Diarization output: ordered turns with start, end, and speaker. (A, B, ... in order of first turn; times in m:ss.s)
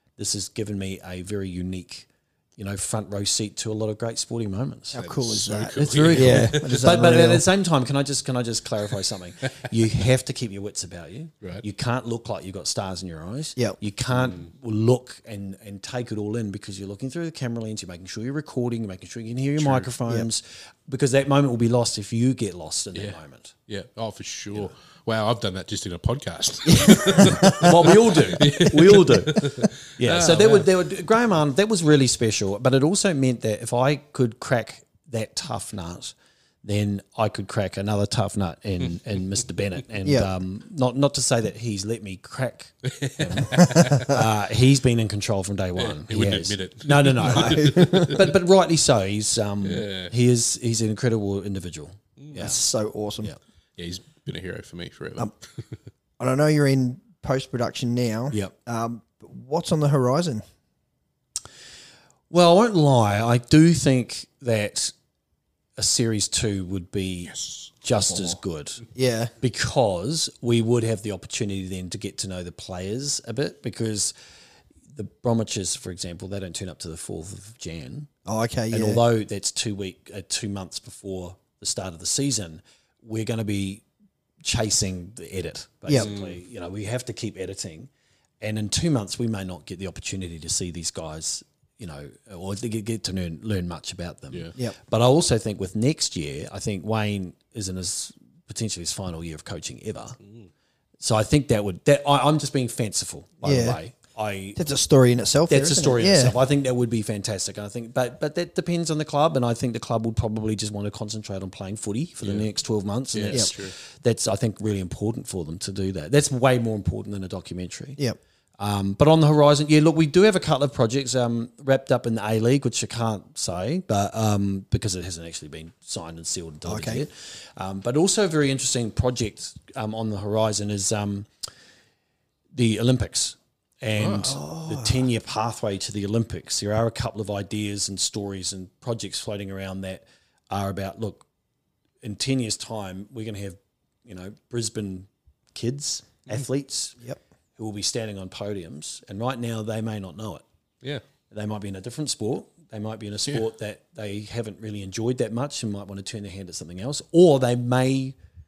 0:00.2-0:05.1 A
0:04.9-0:07.4 B
0:04.9-0:07.0 C
0:05.8-0:23.5 A
0:14.1-0:14.5 C
0:19.6-0:19.9 C
0:22.9-0:30.7 C
0:26.6-0:27.7 B
0:27.2-0:52.6 A
0:42.8-0:44.2 C
0:43.7-0:44.1 B
0:45.8-0:48.3 C
0:47.2-0:48.2 B
0:49.6-0:50.1 C
0:52.2-0:52.5 C
0:52.3-0:53.3 B
0:53.8-0:55.7 C
0:56.2-1:00.4 B
1:02.3-1:04.9 A
1:05.8-1:08.8 A
1:07.2-1:07.7 C
1:08.0-1:08.4 B
1:08.9-1:09.3 B
1:09.4-1:14.1 A
1:14.9-1:18.1 A
1:18.2-1:19.0 B
1:18.7-1:23.8 A
1:24.4-1:27.9 A
1:26.0-1:26.4 C
1:28.4-1:40.2 A
1:40.2-1:40.5 C
1:41.0-1:44.6 A
1:43.4-1:43.8 B
1:44.6-1:46.3 B
1:45.5-1:58.0 A
1:52.2-1:52.5 C
1:53.1-1:53.8 C
1:58.6-2:11.3 A
2:06.6-2:07.0 B
2:12.5-2:21.2 A
2:14.0-2:14.4 C
2:14.2-2:15.1 B
2:22.0-2:27.0 A
2:27.6-2:30.4 A
2:31.3-2:38.2 A